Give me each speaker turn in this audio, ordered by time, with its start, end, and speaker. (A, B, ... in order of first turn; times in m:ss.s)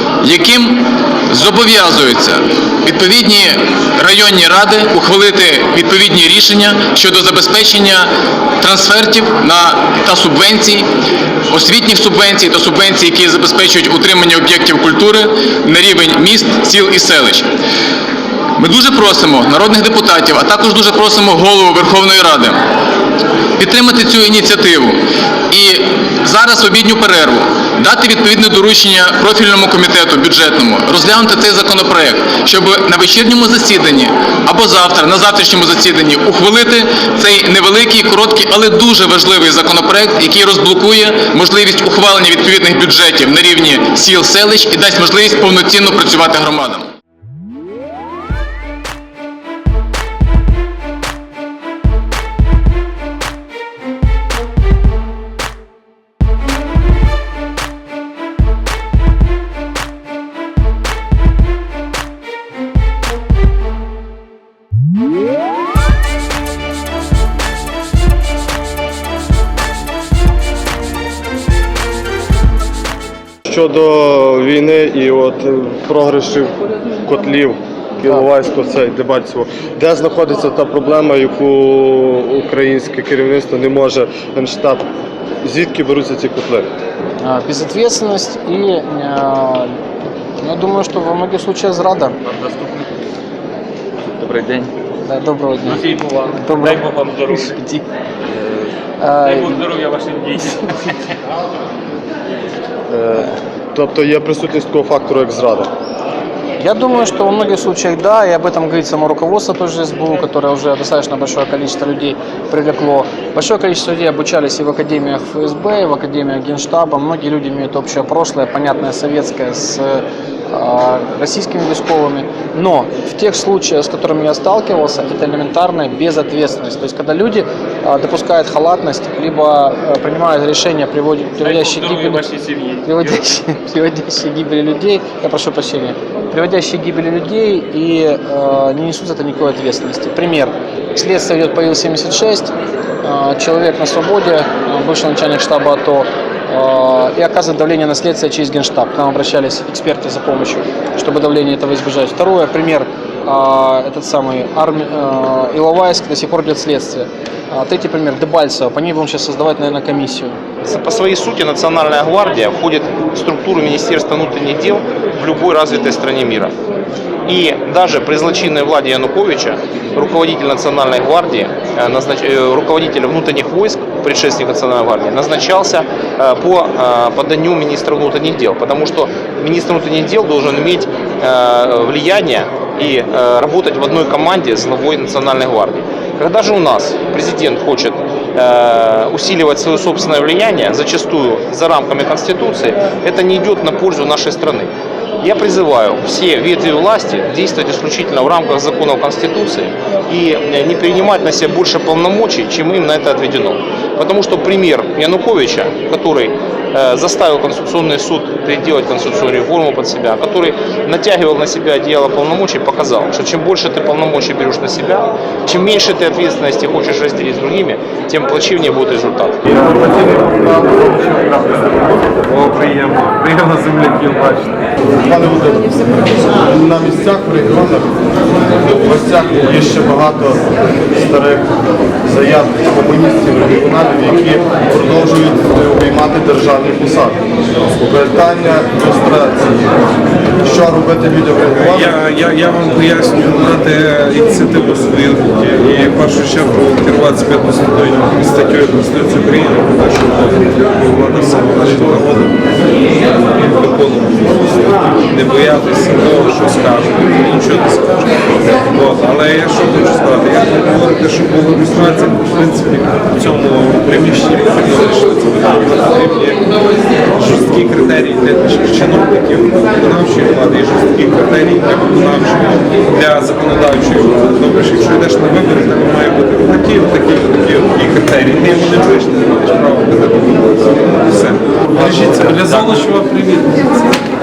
0:00.2-0:08.1 A
0:08.6-0:10.9 A
0:11.5-0:17.5 A
0:18.6-0:22.6 A
0:23.6-0:25.0 A
0:25.5-0:46.9 A
1:13.4-1:16.5 B
1:17.0-1:24.9 B
1:25.4-1:26.7 B
1:27.2-1:29.8 C
1:30.4-1:32.2 C
1:32.2-1:32.8 D
1:34.2-1:34.7 D
1:35.0-1:37.8 C
1:35.7-1:37.5 D
1:39.0-1:39.7 C
1:39.3-1:40.6 D
1:42.9-1:45.7 B
1:46.6-2:12.3 C
2:11.4-2:12.8 D
2:12.8-2:40.4 C
2:40.6-2:46.5 E
2:47.2-3:14.7 E
3:15.2-3:39.3 E
3:39.5-3:41.8 B
3:42.3-3:44.5 F
3:45.0-3:47.9 B
3:48.6-3:51.5 B
3:52.0-3:57.2 B
3:57.8-3:59.8 B
4:00.4-4:01.9 B
4:01.5-4:12.4 F
4:13.2-4:43.9 F